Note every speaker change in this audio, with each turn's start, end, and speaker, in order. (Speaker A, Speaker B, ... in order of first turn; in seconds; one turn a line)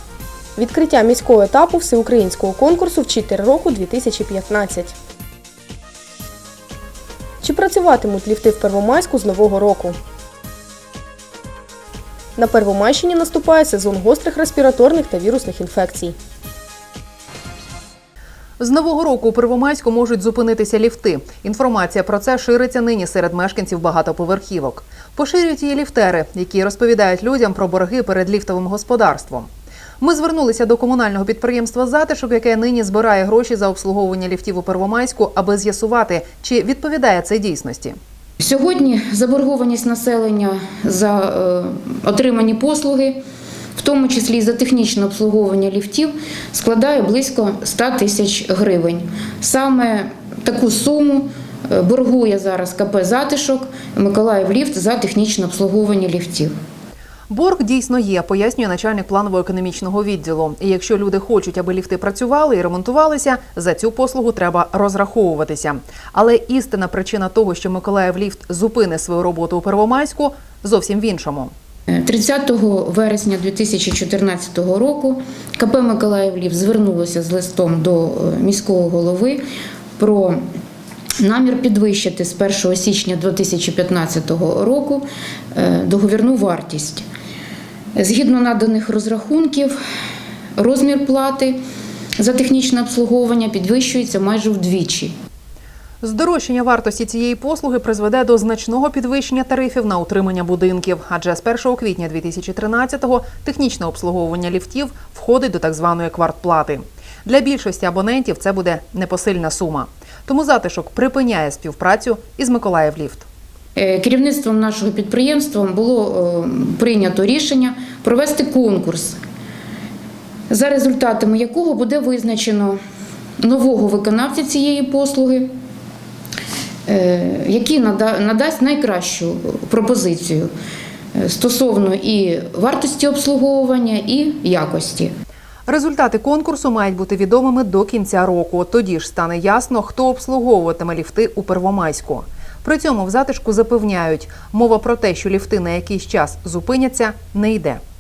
Speaker A: 0.6-4.9
Speaker A: 7.4-10.0
Speaker A: 12.4-16.1
Speaker B: 18.6-29.5
Speaker B: 30.0-38.0
Speaker C: 38.4-43.2
Speaker C: 43.8-56.5
Speaker B: 57.3-71.5
Speaker C: 71.9-79.4
Speaker C: 80.0-80.4
Speaker C: 81.2-87.1
Speaker C: 88.0-89.7
Speaker C: 90.6-91.6
Speaker C: 92.2-95.1
Speaker B: 96.0-113.2
Speaker C: 113.8-119.2
Speaker C: 120.5-122.8
Speaker C: 123.4-125.5
Speaker C: 126.9-130.5
Speaker C: 131.2-135.1
Speaker B: 135.7-147.8